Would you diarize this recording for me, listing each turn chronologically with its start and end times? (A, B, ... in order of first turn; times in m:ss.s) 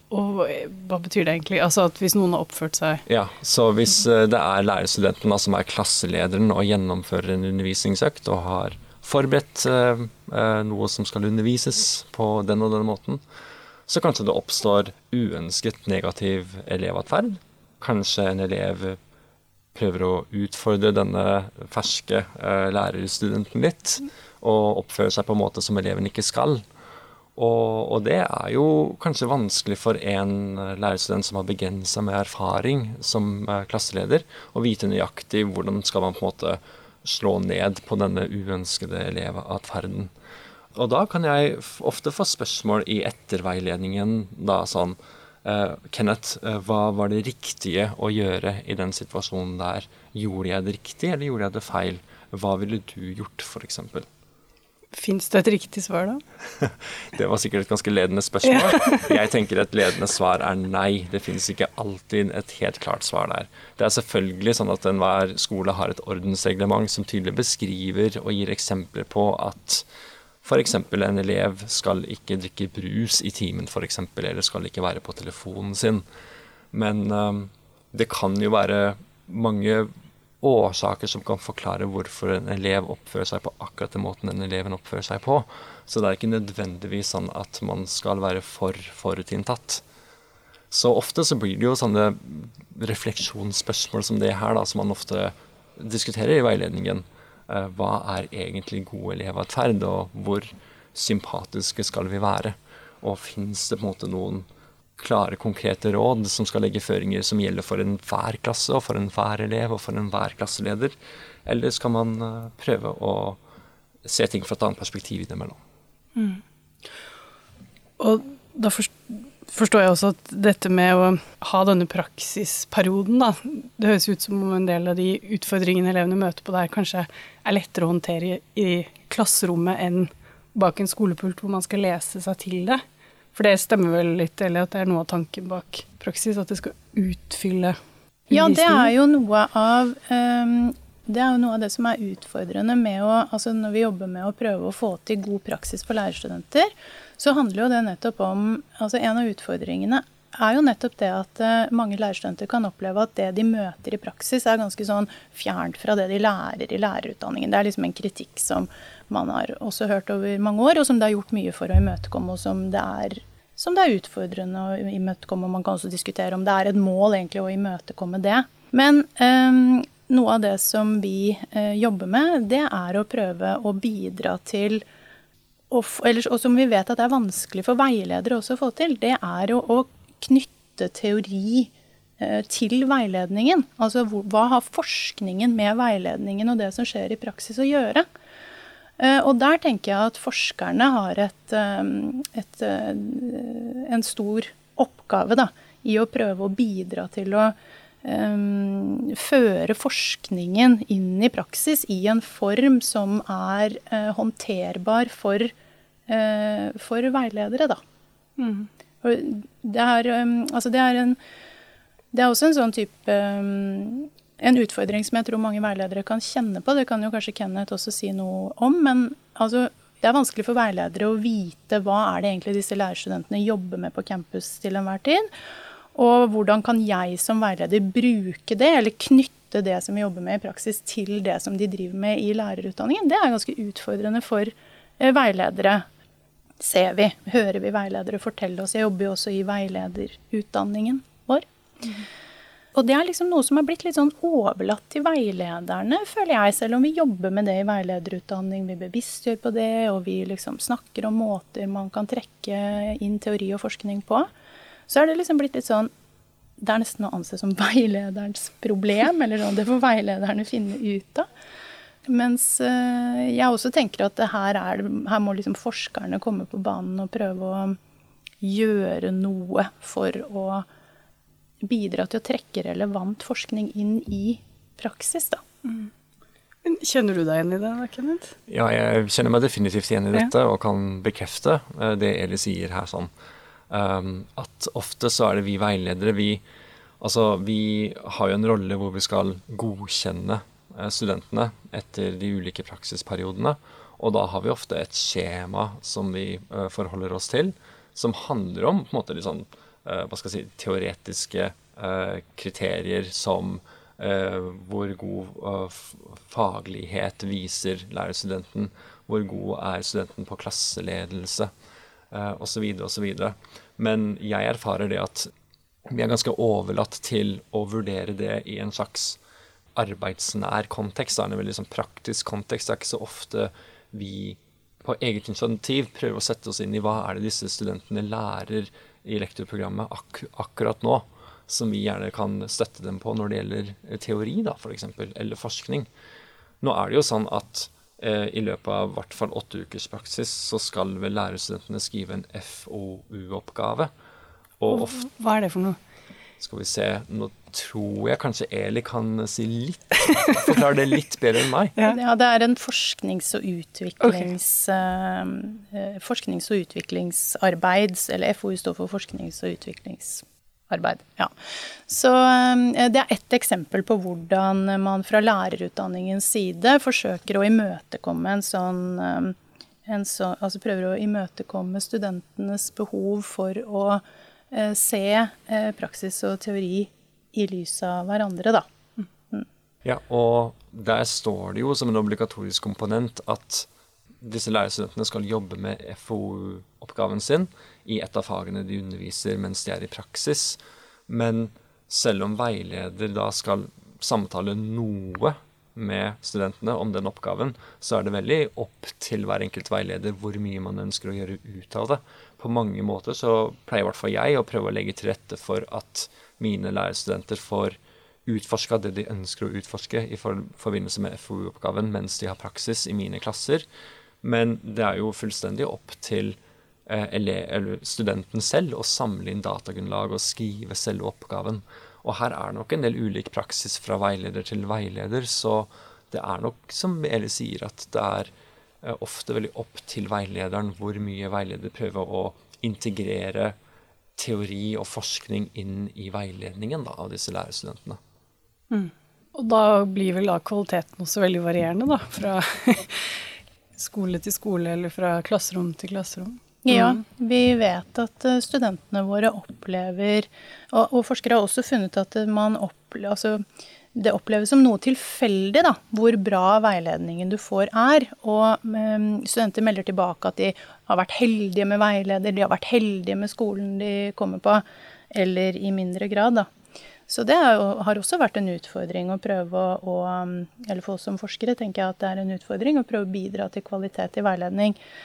0:00.1-0:03.0 A
0:03.1-0:13.2 B
0:13.9-0:19.0 B
0:19.8-0:26.6 B
0:27.4-0:40.1 B
0:40.7-0:54.1 B
0:54.9-0:56.2 A
0:56.6-1:09.9 B
0:58.5-0:59.0 A
1:10.4-1:16.0 B
1:16.7-1:19.9 B
1:20.4-1:29.8 B
1:30.7-1:44.5 B
1:45.0-1:50.9 B
1:51.4-1:53.4 B
1:54.0-1:55.6 B
1:56.2-1:56.4 A
1:58.0-2:12.8 A
2:13.3-2:17.8 A
2:18.3-2:18.9 A
2:18.3-2:54.8 C
2:55.7-3:08.1 C
3:09.0-3:25.5 C
3:26.1-3:27.8 C
3:28.4-3:28.7 A
3:29.0-3:31.2 C
3:32.1-3:45.3 C
3:45.9-3:55.8 C
3:56.6-4:01.4 C
4:02.7-4:14.3 C
4:14.9-4:15.9 C
4:16.6-4:21.3 C
4:22.1-4:27.8 C
4:28.4-4:30.7 C
4:31.6-4:35.4 C
4:35.6-4:35.9 A
4:36.6-4:38.4 A
4:38.5-4:43.1 B
4:43.7-4:46.4 B
4:47.0-5:11.5 B
5:12.1-5:15.3 B
5:15.9-5:19.2 B
5:19.8-5:35.9 B
5:36.6-5:43.9 B
5:44.6-5:45.0 B
5:44.7-5:45.8 A
5:46.4-5:51.8 B
5:51.8-6:01.3 C
6:01.9-6:18.7 C
6:19.8-6:23.7 B
6:24.2-6:53.6 B
6:54.2-7:08.3 B
7:08.8-7:13.5 B
7:14.2-7:18.0 B
7:18.7-7:27.0 A
7:26.6-7:46.5 C
7:47.1-7:54.8 C